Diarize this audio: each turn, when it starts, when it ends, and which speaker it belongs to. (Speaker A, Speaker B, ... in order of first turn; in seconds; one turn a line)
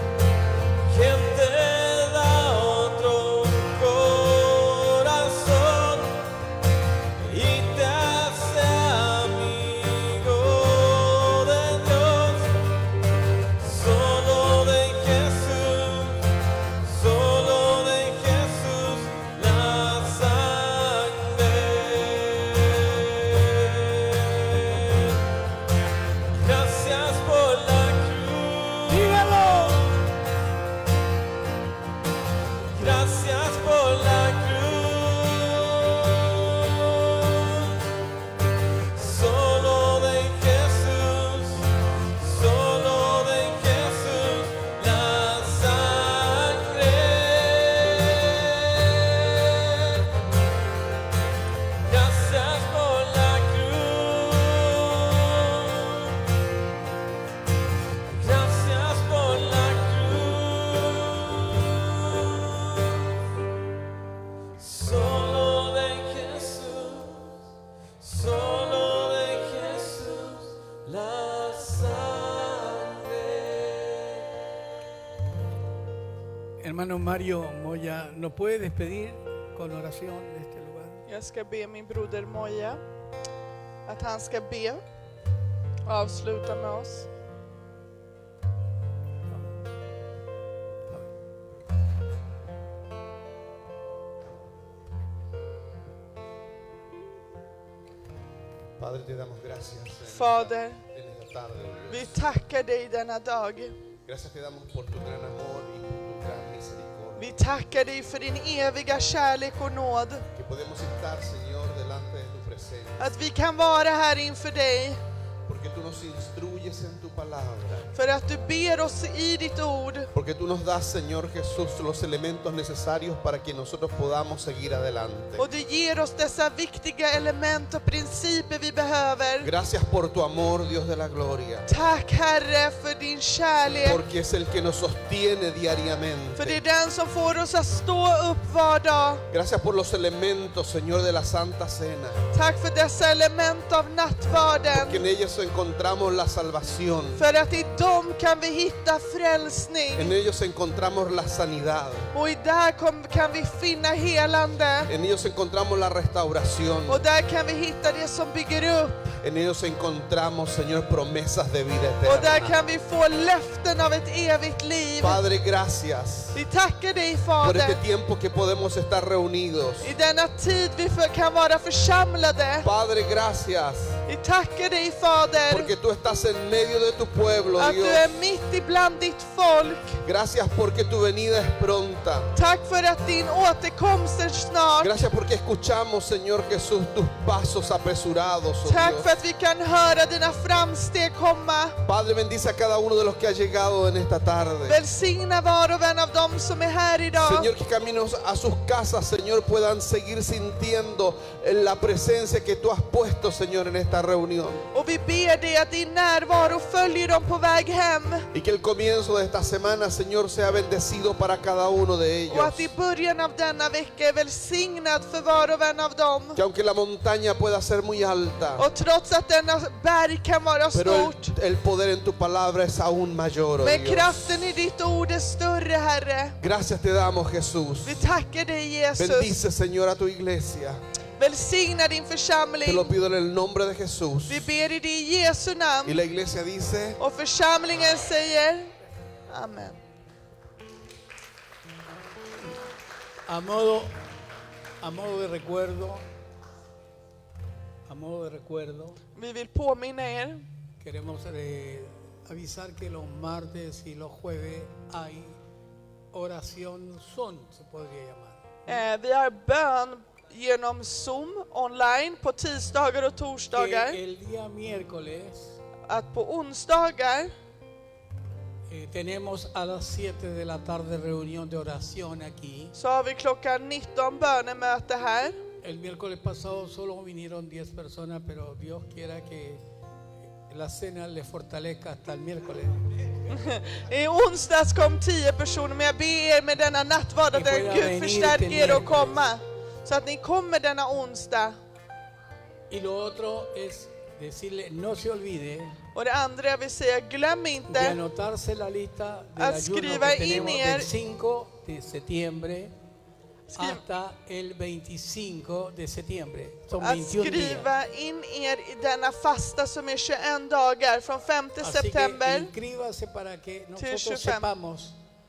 Speaker A: 0.9-6.3
Speaker A: 7.2-12.6
Speaker A: 13.6-16.2
Speaker A: 16.8-25.2
Speaker A: 26.4-29.3
Speaker B: 28.9-30.0
Speaker A: 32.7-37.8
Speaker A: 38.9-50.1
Speaker A: 51.9-56.2
Speaker A: 58.1-63.1
Speaker A: 64.6-67.4
Speaker A: 68.0-74.3
Speaker B: 76.6-81.0
Speaker C: 81.0-82.8
Speaker C: 83.8-84.8
Speaker C: 85.8-87.1
Speaker B: 89.3-89.6
Speaker D: 98.8-102.2
Speaker C: 100.0-100.8
Speaker C: 101.9-103.8
Speaker D: 104.1-107.3
Speaker C: 107.2-110.2
Speaker D: 110.3-113.1
Speaker C: 113.0-115.0
Speaker D: 115.5-117.9
Speaker C: 117.9-120.1
Speaker D: 120.1-125.4
Speaker C: 125.4-129.5
Speaker D: 129.4-131.7
Speaker C: 131.7-134.0
Speaker D: 133.8-136.6
Speaker C: 136.4-139.2
Speaker D: 139.3-142.2
Speaker C: 142.3-145.0
Speaker D: 144.7-147.2
Speaker C: 147.2-150.1
Speaker D: 149.9-152.1
Speaker C: 152.1-154.9
Speaker D: 154.9-157.0
Speaker C: 156.9-159.2
Speaker D: 159.2-162.6
Speaker C: 162.0-165.2
Speaker D: 165.0-166.4
Speaker C: 166.3-167.8
Speaker D: 167.4-169.9
Speaker C: 169.8-172.7
Speaker D: 172.6-173.9
Speaker C: 174.1-175.7
Speaker D: 175.5-178.0
Speaker C: 177.6-180.0
Speaker D: 180.0-182.3
Speaker C: 182.3-184.9
Speaker D: 184.8-189.1
Speaker C: 188.6-191.8
Speaker D: 191.8-194.8
Speaker C: 194.6-197.5
Speaker D: 197.2-204.6
Speaker C: 204.7-208.3
Speaker D: 208.3-212.7
Speaker C: 212.3-216.4
Speaker D: 216.3-218.6
Speaker C: 218.6-221.3
Speaker D: 220.7-224.3
Speaker C: 223.6-226.4
Speaker D: 226.4-228.0
Speaker C: 227.8-229.4
Speaker D: 228.9-230.8
Speaker C: 231.2-232.9
Speaker D: 232.6-234.5
Speaker C: 234.3-236.0
Speaker D: 235.8-237.0
Speaker C: 237.0-238.7
Speaker C: 239.3-239.8
Speaker B: 243.3-243.9
Speaker B: 244.8-246.0
Speaker B: 247.9-249.0
Speaker C: 249.1-250.4
Speaker B: 250.8-255.4
Speaker B: 256.1-258.5
Speaker C: 258.7-264.0
Speaker B: 263.5-265.6
Speaker C: 265.9-267.3
Speaker B: 268.7-272.7
Speaker C: 272.7-275.4
Speaker B: 275.6-279.6
Speaker B: 280.5-282.8
Speaker C: 283.3-291.6
Speaker B: 287.3-289.2
Speaker B: 292.7-295.8
Speaker C: 295.9-298.0
Speaker B: 297.7-302.7
Speaker C: 299.4-300.9
Speaker B: 303.5-307.7
Speaker C: 306.8-312.5
Speaker B: 311.6-314.9
Speaker C: 313.8-314.5